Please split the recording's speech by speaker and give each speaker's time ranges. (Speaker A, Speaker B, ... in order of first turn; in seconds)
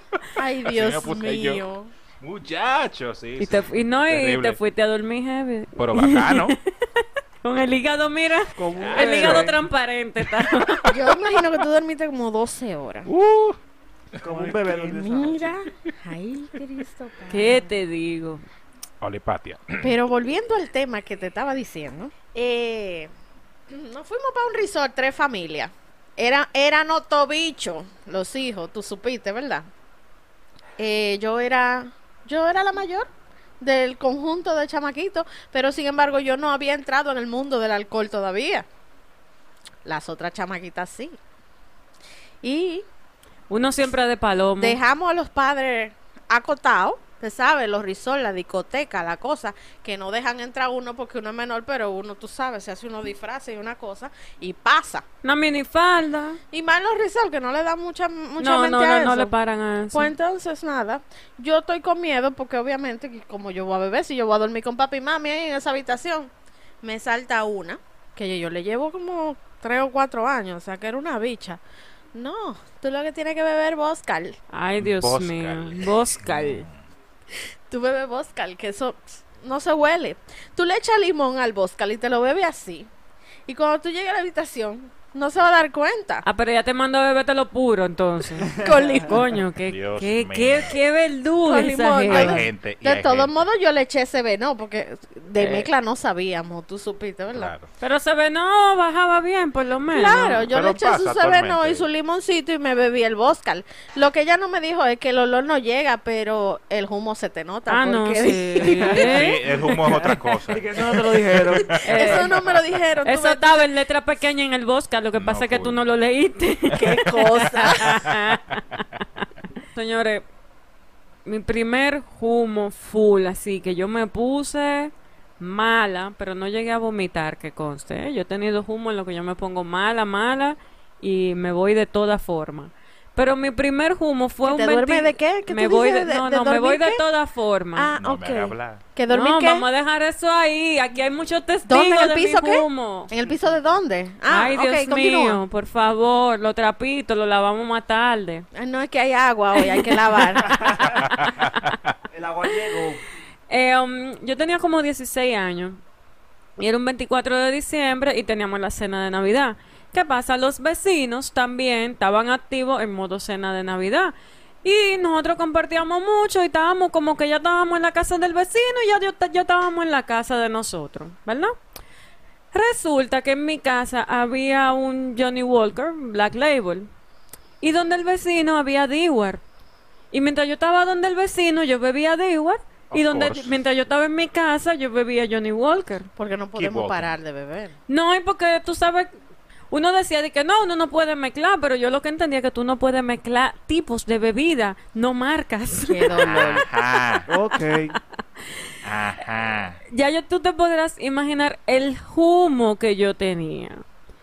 Speaker A: 0.3-1.9, 10.8-13.1, 14.7-17.7, 19.8-23.1, 23.7-29.7, 30.8-33.1, 33.6-38.6, 39.8-41.2, 42.4-42.9, 44.6-55.0, 56.5-59.3, 59.9-66.3, 66.8-71.6, 72.1-74.4, 77.7-82.9, 83.5-86.2, 88.6-89.3, 91.4-97.5, 99.9-109.2, 111.7-113.7, 116.7-118.0, 134.4-137.0, 137.7-139.7, 141.7-145.4, 148.5-150.7, 186.2-187.7, 195.8-196.6
Speaker B: 0.6-1.6, 2.2-4.6, 5.8-6.6, 8.8-9.6, 13.1-13.6, 14.1-14.6, 19.0-19.9, 74.8-76.7, 89.7-90.8, 92.1-93.5, 97.3-97.7, 100.5-101.9, 108.9-111.8, 115.1-115.8, 117.8-118.2, 138.0-138.8, 151.0-151.9, 182.9-183.5, 186.5-187.1, 196.2-197.3, 198.8-199.8
Speaker C: 3.4-11.0, 17.3-18.4, 43.5-44.8, 55.2-56.4, 58.4-60.1, 74.5-76.7, 86.2-92.4, 95.4-95.7, 97.8-100.5, 107.7-109.5, 111.8-112.4, 113.0-119.0, 119.7-120.2, 121.2-137.9, 139.1-143.1, 144.3-148.4, 149.6-151.0, 153.5-155.8, 156.6-171.5, 172.5-176.9, 177.6-179.4, 180.1-186.1, 187.9-189.1, 189.7-196.8, 199.9-203.8
Speaker D: 8.6-9.6, 14.2-15.5, 88.5-89.0, 109.5-111.8, 150.4-151.0, 152.1-153.0, 197.3-198.0